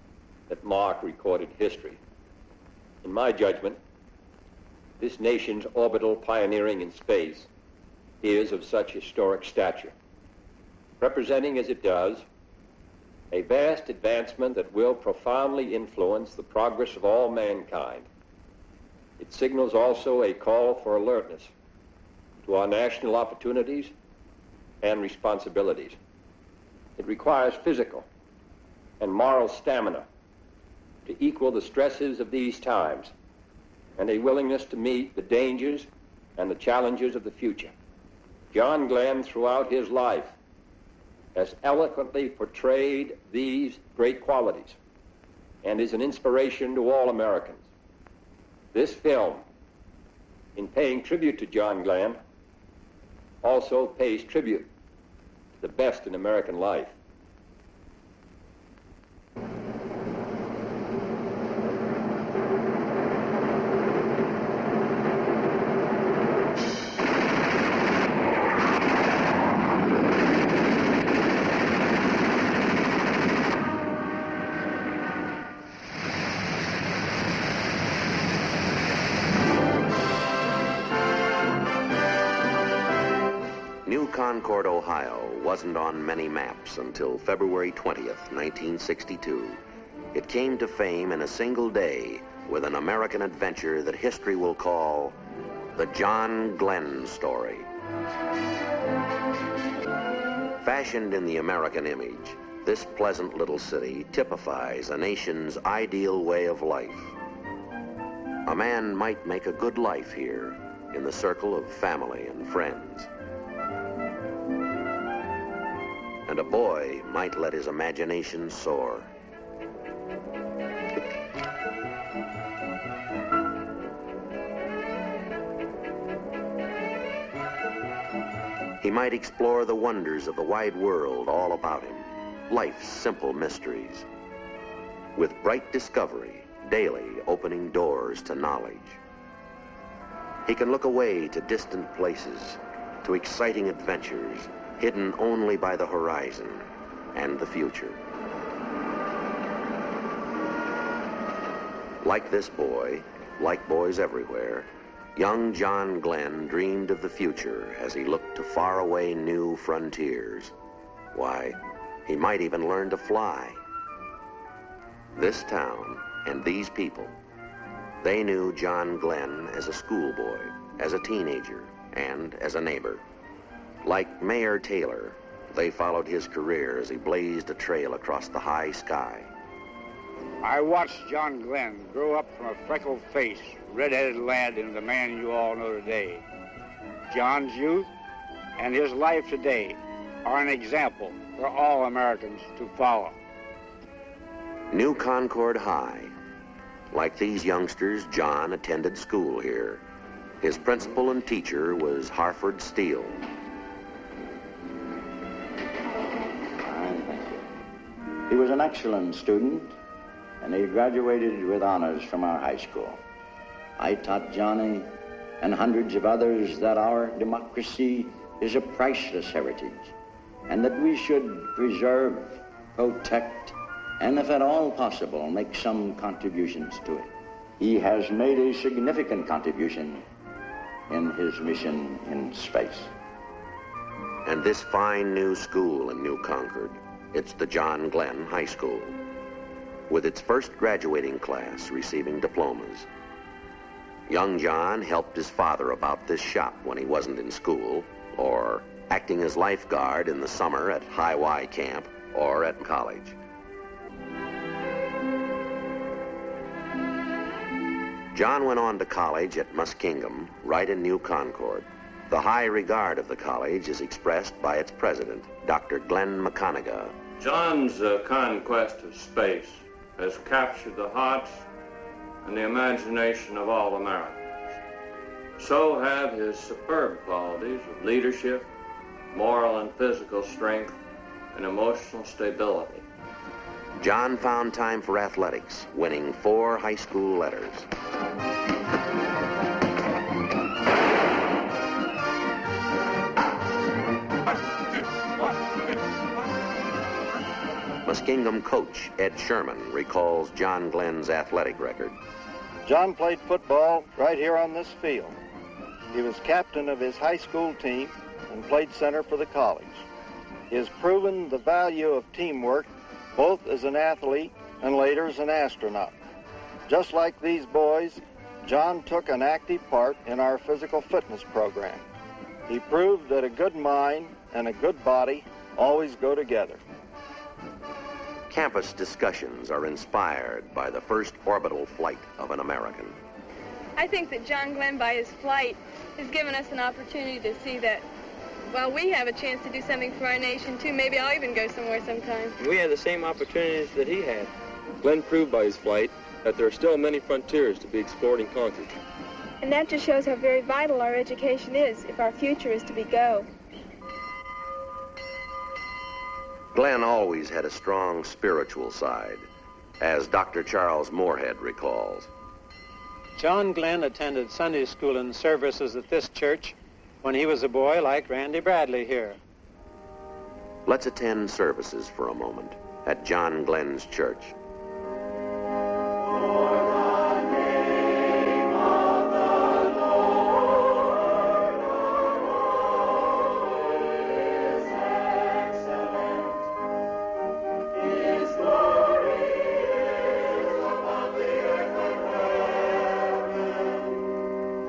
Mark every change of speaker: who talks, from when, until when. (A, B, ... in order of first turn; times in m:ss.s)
0:00.5-0:02.0 A
0:03.0-0:03.8 A
0:05.0-0:07.5 A
0:08.2-0:09.9 A
0:11.0-0:12.2 A
0:13.3-0:18.1 A
0:19.2-0:21.5 A
0:22.4-0:23.9 A
0:24.8-0:26.0 A
0:27.0-0:28.0 A
0:29.0-0:30.1 A
0:31.0-0:33.1 A
0:34.0-0:37.7 A
0:38.5-0:40.3 A
0:41.3-0:44.8 A
0:45.6-0:47.6 A
0:48.7-0:49.4 A
0:50.6-0:52.2 A
0:53.4-0:54.7 A
0:55.6-0:56.9 A
1:23.8-1:29.6 B
1:30.1-1:35.2 B
1:35.7-1:37.7 B
1:40.6-1:47.1 B
1:48.4-1:53.1 B
1:56.3-1:59.1 B
2:08.8-2:14.1 B
2:15.1-2:19.0 B
2:20.4-2:28.0 B
2:32.0-2:40.5 B
2:41.1-2:43.6 B
2:45.1-2:47.1 B
2:48.0-2:53.0 B
2:53.8-2:59.3 B
3:00.4-3:06.2 C
3:07.1-3:07.9 C
3:08.6-3:13.2 C
3:14.7-3:16.1 B
3:16.9-3:19.8 B
3:20.4-3:23.2 B
3:26.6-3:27.4 D
3:28.3-3:29.7 D
3:30.4-3:33.0 D
3:33.8-3:39.9 D
3:40.5-3:50.0 D
3:50.9-3:52.9 D
3:54.2-3:59.0 B
3:59.9-4:02.9 B
4:04.1-4:13.2 B
4:18.1-4:26.9 B
4:27.2-4:31.4 E
4:32.2-4:34.2 E
4:35.4-4:38.5 E
4:39.1-4:40.8 E
4:41.3-4:42.8 E
4:43.8-4:47.7 B
4:57.8-5:02.0 B
5:02.6-5:05.2 F
5:05.9-5:09.8 F
5:10.5-5:16.0 F
5:16.7-5:21.8 F
5:22.5-5:26.6 F
5:28.3-5:33.0 B
5:33.8-5:37.8 G
5:38.5-5:42.3 G
5:42.4-5:44.3 H
5:44.8-5:48.8 H
5:49.4-5:53.3 G
5:56.5-5:59.3 B
5:59.8-6:02.1 B
6:03.2-6:09.2 I
6:10.6-6:14.4 B